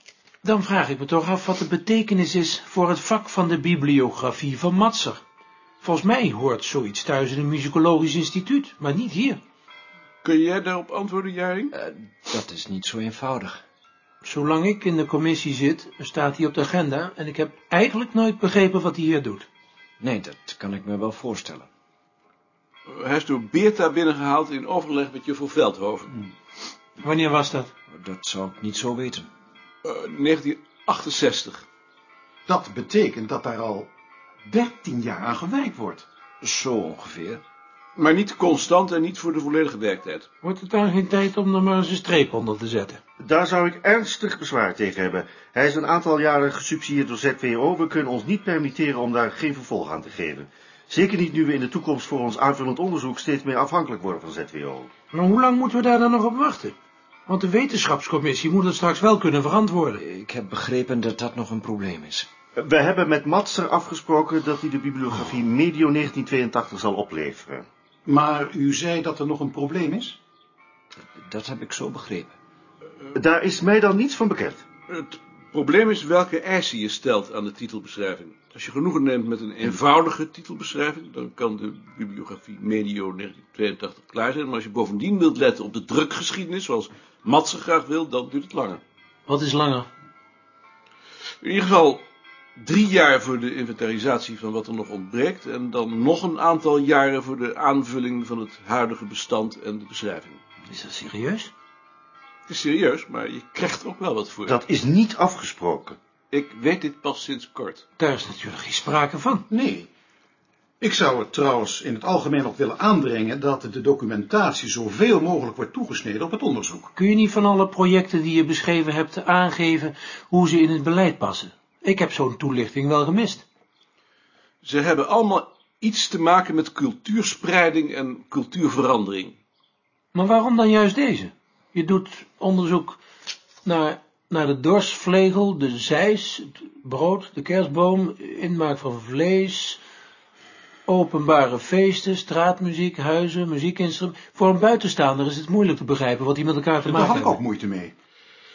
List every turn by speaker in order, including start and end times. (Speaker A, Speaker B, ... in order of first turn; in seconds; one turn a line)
Speaker A: 0.4-5.2
Speaker A: 5.8-9.4
Speaker B: 10.2-11.7
Speaker C: 11.8-13.6
Speaker A: 14.2-19.5
Speaker C: 20.0-21.7
Speaker B: 22.9-26.1
Speaker A: 27.0-27.7
Speaker C: 27.9-29.3
Speaker B: 29.8-31.7
Speaker D: 32.5-33.9
Speaker D: 34.5-36.1
Speaker C: 36.4-37.4
Speaker B: 38.0-40.3
Speaker A: 40.4-43.0
Speaker E: 43.2-54.9
Speaker A: 55.1-56.8
Speaker A: 57.3-60.0
Speaker C: 60.0-62.3
Speaker E: 62.5-67.7
Speaker D: 68.1-70.2
Speaker C: 71.2-72.3
Speaker E: 73.2-74.6
Speaker B: 74.9-88.8
Speaker A: 89.3-89.9
Speaker B: 91.4-92.0
Speaker B: 92.6-100.4
Speaker A: 100.7-101.5
Speaker B: 102.5-104.6
Speaker E: 104.5-106.0
Speaker B: 106.3-107.8
Speaker A: 108.0-109.5
Speaker D: 109.5-109.9
Speaker D: 110.8-116.9
Speaker A: 117.0-123.4
Speaker B: 124.6-129.4
Speaker A: 130.1-133.0
Speaker A: 133.7-139.8
Speaker A: 140.9-147.4
Speaker D: 146.8-147.9